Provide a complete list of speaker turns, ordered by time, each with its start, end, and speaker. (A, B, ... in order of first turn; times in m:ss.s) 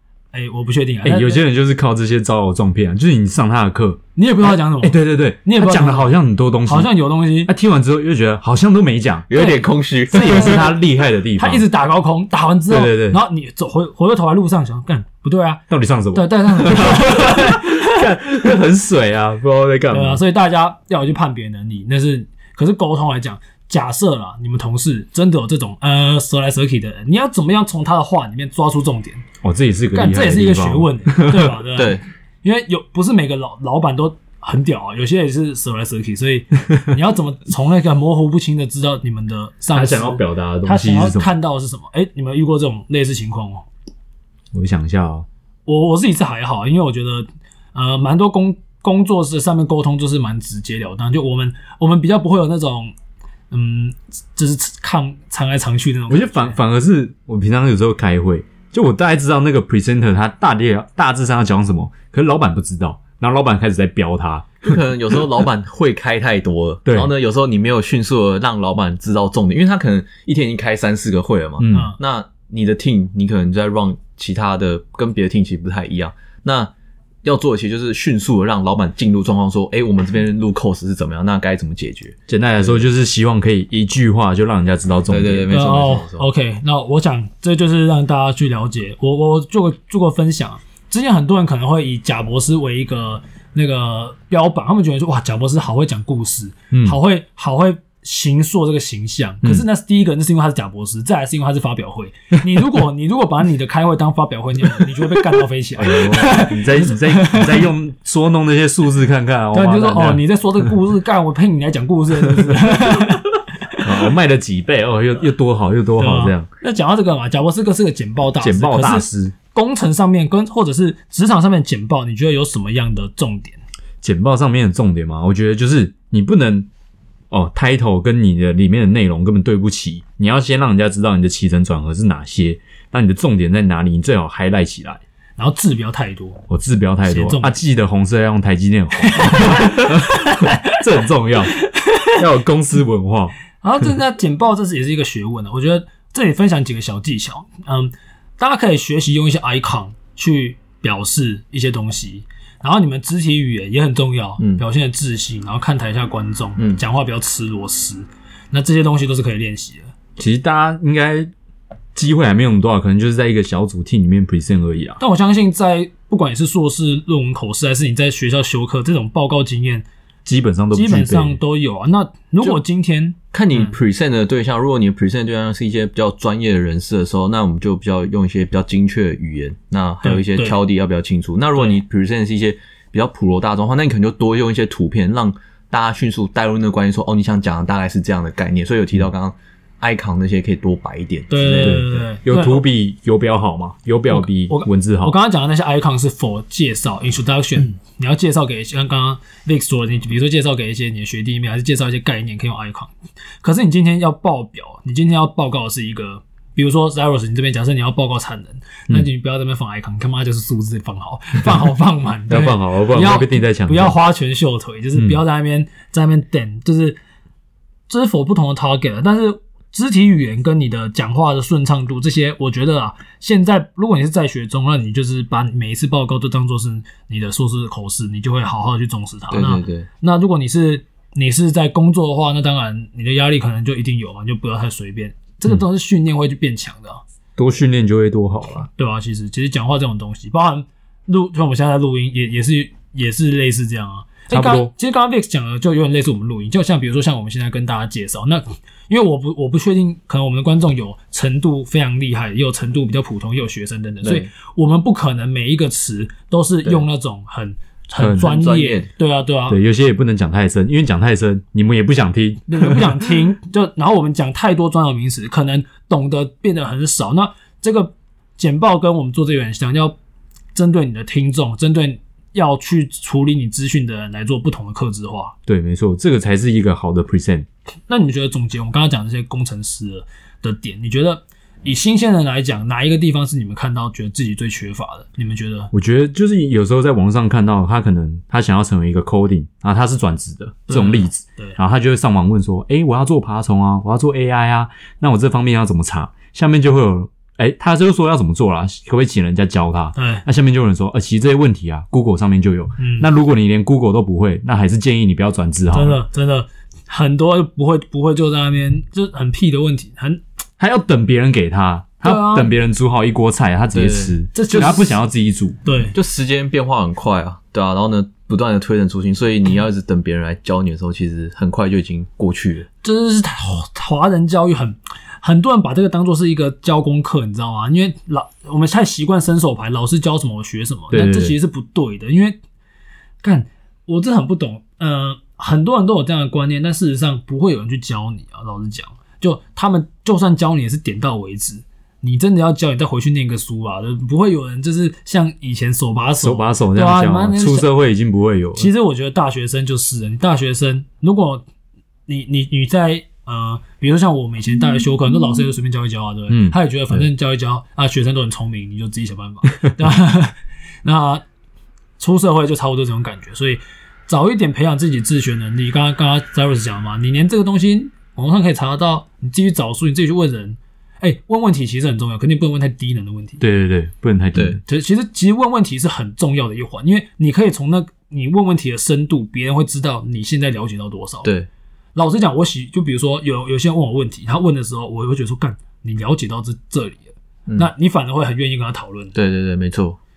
0:00.3-0:01.4 A
0:01.0-0:06.9 B
0:04.2-0:06.1 A
0:06.6-0:07.5 A
0:07.4-0:09.4 B
0:09.3-0:10.7 C
0:10.1-0:10.8 A
0:10.1-0:11.6 B
0:11.4-0:18.0 A
0:12.7-0:13.2 B
0:15.7-0:20.2 B
0:19.9-0:29.2 A
0:29.4-0:31.5 B
0:29.9-0:43.6 A
0:31.7-0:32.0 C
0:39.7-0:41.3 B
0:44.5-0:45.2 B
0:45.6-0:52.9 A
0:53.5-0:56.6 A
0:56.1-1:04.7 B
1:04.6-1:16.7 C
1:06.8-1:07.1 B
1:11.6-1:11.9 B
1:11.7-1:12.0 A
1:17.2-1:22.9 C
1:22.3-1:25.5 B
1:25.1-1:26.2 C
1:25.5-1:47.7 A
1:36.7-1:37.0 B
1:45.8-1:50.2 B
1:49.5-1:53.8 A
1:52.3-1:52.7 B
1:53.8-1:56.5 B
1:56.0-2:03.6 A
1:58.4-1:59.3 B
2:04.0-2:06.7 B
2:07.3-2:15.0 B
2:15.4-2:16.4 A
2:16.5-2:21.5 B
2:17.0-2:17.6 A
2:19.1-2:20.7 A
2:22.1-2:23.3 B
2:23.6-2:39.9 A
2:34.4-2:34.6 C
2:40.2-2:41.3 B
2:41.9-2:45.0 B
2:45.0-2:49.8 A
2:50.2-2:51.4 B
2:50.7-2:53.7 A
2:53.3-3:12.0 C
3:00.0-3:00.6 A
3:11.3-3:12.6 A
3:11.6-3:15.1 B
3:14.1-3:37.0 A
3:32.3-3:34.0 B
3:34.9-3:35.2 B
3:37.9-3:57.0 A
3:49.3-3:49.9 C
3:57.4-3:58.7 B
3:58.7-4:19.6 A
4:04.3-4:04.7 B
4:14.0-4:14.3 C
4:18.0-4:18.3 B
4:18.2-4:18.9 C
4:19.5-4:23.0 B
4:22.5-4:30.0 A
4:30.5-4:35.3 A
4:35.5-4:37.4 B
4:37.9-4:45.7 A
4:45.7-5:06.0 B
4:50.7-4:51.6 A
5:00.0-5:00.2 A
5:02.8-5:03.1 A
5:05.7-5:10.2 A
5:10.6-5:15.6 B
5:12.0-5:12.5 A
5:13.7-5:14.1 C
5:14.3-5:15.0 A
5:15.6-5:16.0 A
5:15.9-5:22.7 C
5:22.8-5:32.4 A
5:30.9-5:31.3 B
5:33.2-5:47.7 A
5:46.2-5:48.7 B
5:48.6-5:51.4 A
5:52.1-6:01.2 A
5:56.3-5:56.6 B
6:02.0-6:13.4 A
6:13.4-6:14.6 B
6:14.3-6:14.6 C
6:14.6-6:21.3 A
6:21.9-6:29.1 A
6:29.1-6:30.0 C